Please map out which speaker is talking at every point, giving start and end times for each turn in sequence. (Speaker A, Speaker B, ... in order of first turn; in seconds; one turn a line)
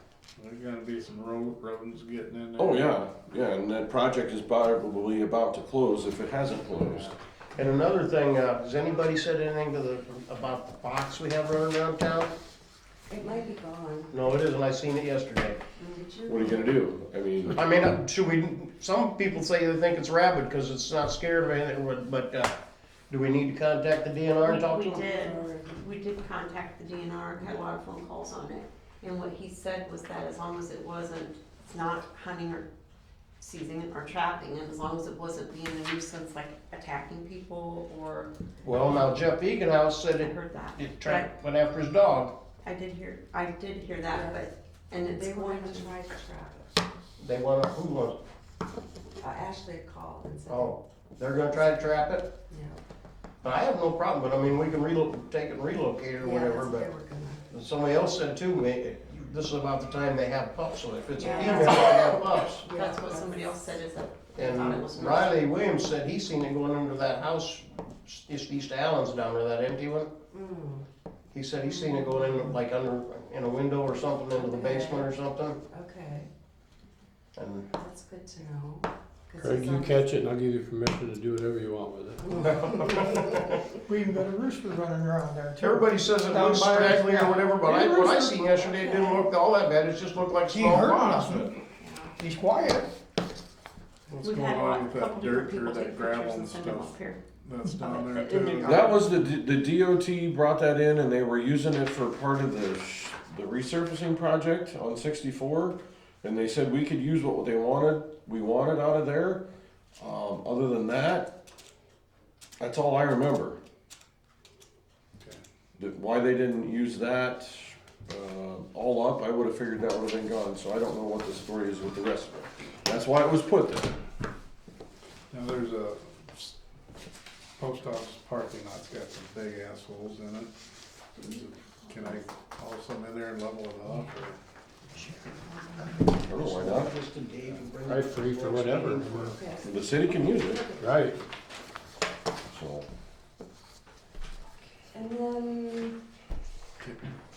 Speaker A: 0.4-2.9
Speaker B: 2.6-7.1
Speaker A: 6.8-7.1
Speaker C: 7.5-12.3
Speaker D: 13.1-14.4
Speaker C: 14.1-15.6
Speaker D: 15.8-16.9
Speaker B: 16.3-17.6
Speaker C: 17.5-22.5
Speaker C: 23.1-25.1
Speaker E: 24.4-32.7
Speaker D: 25.1-25.5
Speaker E: 33.4-38.3
Speaker C: 38.6-42.3
Speaker E: 40.2-41.3
Speaker E: 42.6-45.9
Speaker D: 44.1-44.4
Speaker D: 45.0-46.8
Speaker C: 47.2-48.1
Speaker D: 49.2-50.8
Speaker C: 50.5-52.3
Speaker D: 52.5-52.8
Speaker C: 53.4-56.9
Speaker D: 56.2-57.5
Speaker C: 57.5-62.6
Speaker E: 61.1-65.4
Speaker D: 61.2-61.8
Speaker D: 62.6-63.6
Speaker C: 64.3-70.1
Speaker D: 70.3-70.8
Speaker C: 71.3-75.6
Speaker D: 71.6-72.6
Speaker D: 74.3-75.1
Speaker D: 75.7-76.3
Speaker C: 77.3-77.7
Speaker D: 77.7-80.1
Speaker F: 79.4-82.3
Speaker D: 82.2-83.4
Speaker C: 82.4-83.6
Speaker G: 83.9-88.4
Speaker C: 85.6-91.5
Speaker D: 88.5-89.3
Speaker G: 90.5-91.5
Speaker E: 91.8-92.1
Speaker G: 92.2-92.9
Speaker A: 94.1-99.0
Speaker E: 94.2-97.2
Speaker E: 97.8-98.9
Speaker B: 98.6-109.4
Speaker B: 110.0-111.3
Speaker B: 112.6-113.6
Speaker B: 115.8-124.0
Speaker A: 125.3-126.5
Speaker A: 127.6-130.5
Speaker A: 131.2-134.4
Speaker B: 136.2-136.9
Speaker C: 136.2-139.4
Speaker F: 137.8-139.4
Speaker D: 139.3-141.2
Speaker B: 139.6-140.7
Speaker F: 140.8-141.2
Speaker B: 142.5-142.9
Speaker D: 144.8-146.0